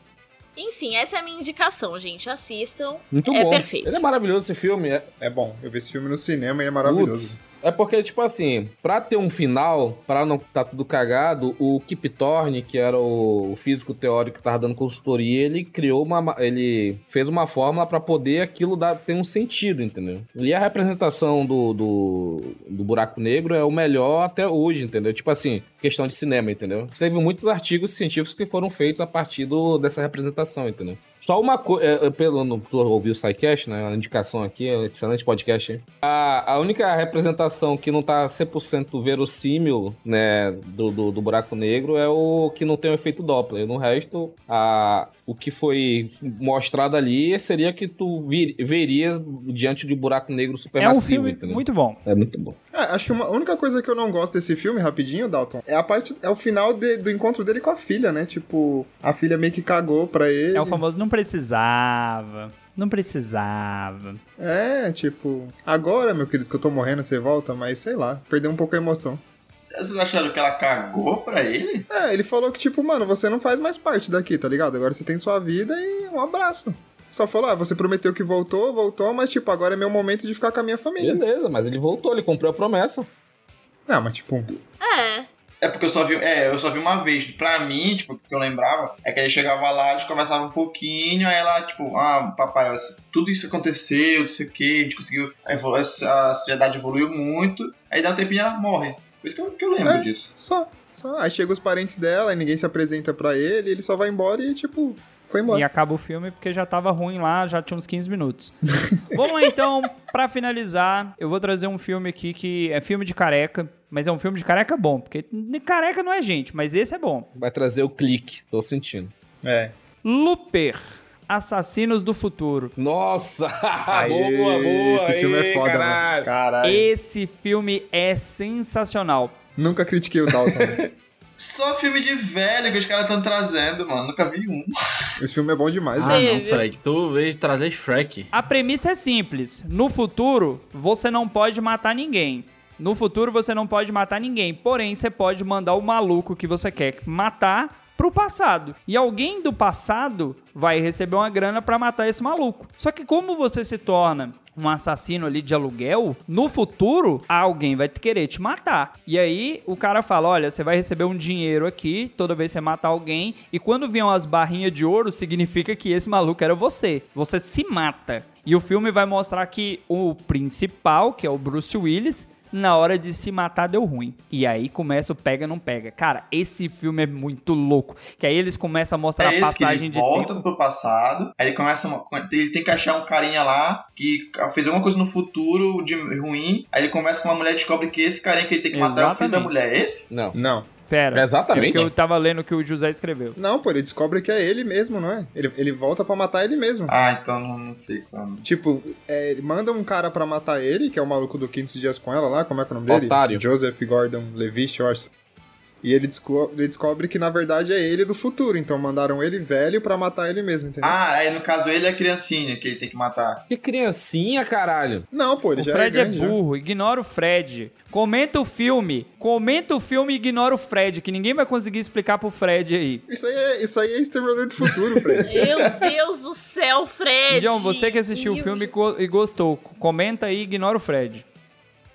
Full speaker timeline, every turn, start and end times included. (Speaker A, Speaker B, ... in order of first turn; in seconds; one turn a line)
Speaker A: 0.6-4.0
Speaker B: 3.1-5.1
Speaker C: 5.2-7.4
Speaker B: 6.8-52.6
Speaker D: 50.8-52.0
Speaker C: 52.7-60.8
Speaker D: 60.5-64.2
Speaker C: 64.4-69.2
Speaker E: 69.8-71.9
Speaker C: 71.9-81.2
Speaker B: 81.0-83.1
Speaker C: 83.9-84.6
Speaker A: 84.8-85.3
Speaker E: 85.6-100.3
Speaker C: 99.8-105.7
Speaker D: 105.5-108.5
Speaker D: 109.1-117.3
Speaker B: 117.4-119.1
Speaker C: 119.4-119.7
Speaker D: 120.0-122.7
Speaker B: 122.8-126.3
Speaker C: 123.9-126.9
Speaker D: 126.6-129.3
Speaker C: 129.6-130.8
Speaker B: 130.5-130.9
Speaker E: 131.4-134.7
Speaker C: 135.2-136.3
Speaker F: 136.0-138.3
Speaker A: 136.0-136.7
Speaker D: 138.3-180.4
Speaker E: 179.2-190.1
Speaker D: 188.7-189.5
Speaker B: 190.1-190.4
Speaker C: 190.3-190.7
Speaker D: 190.9-193.4
Speaker B: 191.1-191.9
Speaker C: 193.4-196.9
Speaker E: 196.9-198.4
Speaker C: 198.4-205.1
Speaker B: 202.9-203.4
Speaker C: 205.8-211.0
Speaker E: 210.8-213.4
Speaker B: 213.5-215.1
Speaker C: 215.1-216.4
Speaker D: 215.6-223.0
Speaker C: 223.1-225.4
Speaker B: 224.6-225.9
Speaker A: 225.3-228.7
Speaker D: 227.3-231.2